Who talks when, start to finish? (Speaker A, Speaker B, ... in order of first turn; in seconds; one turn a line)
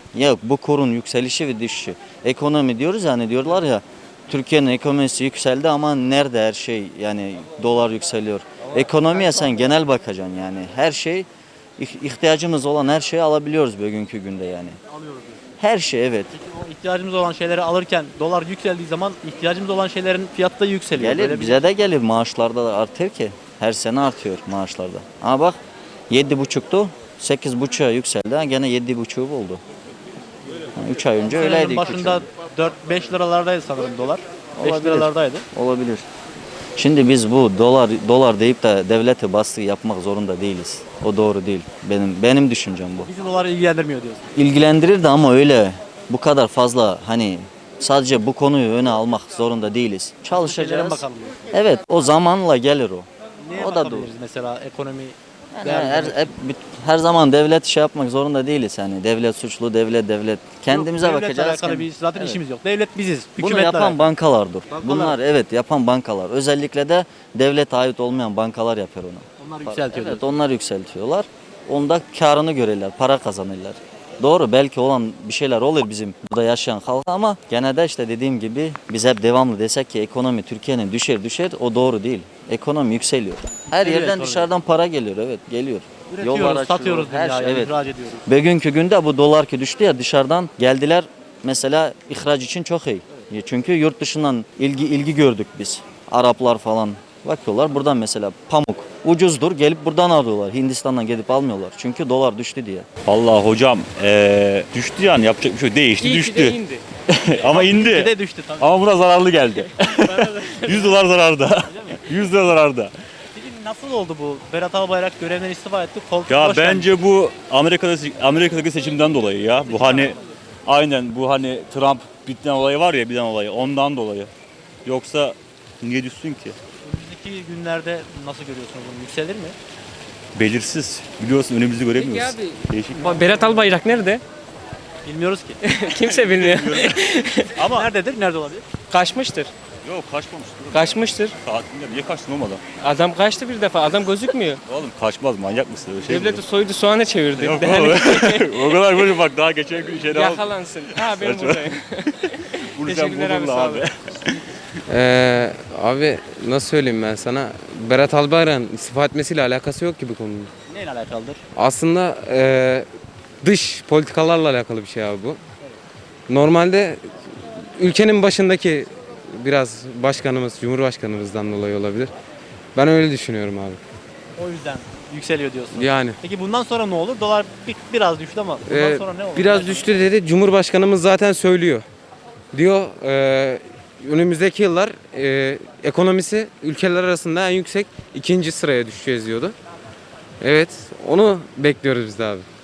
Speaker A: 0.1-14.8
Speaker B: 9.1-9.6
Speaker B: 14.9-15.4
Speaker A: 15.6-16.3
Speaker B: 16.3-21.7
Speaker A: 21.0-29.6
Speaker A: 30.8-32.3
Speaker B: 31.3-35.5
Speaker A: 34.6-36.0
Speaker A: 36.8-43.1
Speaker B: 43.0-44.3
Speaker A: 44.4-54.1
Speaker B: 50.3-51.4
Speaker B: 53.4-56.2
Speaker A: 55.5-62.4
Speaker B: 60.7-64.0
Speaker A: 63.4-87.7
Speaker B: 64.7-65.2
Speaker B: 69.4-70.3
Speaker B: 83.7-84.5
Speaker B: 86.1-88.2
Speaker A: 88.2-102.9
Speaker C: 103.0-112.9
Speaker D: 106.0-106.8
Speaker B: 107.4-108.8
Speaker D: 110.0-110.7
Speaker B: 111.6-112.1
Speaker B: 113.3-116.9
Speaker C: 116.3-124.3
Speaker B: 119.7-120.2
Speaker C: 124.8-126.6
Speaker B: 126.8-129.6
Speaker C: 130.3-133.7
Speaker D: 133.0-134.2
Speaker B: 135.0-135.6
Speaker D: 135.6-137.5
Speaker C: 135.8-137.9
Speaker B: 137.6-138.6
Speaker D: 138.9-139.5
Speaker C: 139.8-142.6
Speaker D: 140.8-141.3
Speaker D: 142.8-144.6
Speaker C: 144.6-146.4
Speaker D: 146.1-148.3
Speaker C: 147.3-154.4
Speaker D: 150.1-152.0
Speaker D: 152.8-153.8
Speaker E: 154.9-160.5
Speaker B: 160.7-161.4
Speaker E: 161.6-162.8
Speaker E: 163.4-165.4
Speaker E: 166.3-167.0
Speaker E: 167.8-172.1
Speaker E: 172.7-173.8
Speaker B: 174.4-179.9
Speaker E: 175.7-176.2
Speaker E: 178.7-181.8
Speaker E: 182.5-189.5
Speaker E: 190.4-192.4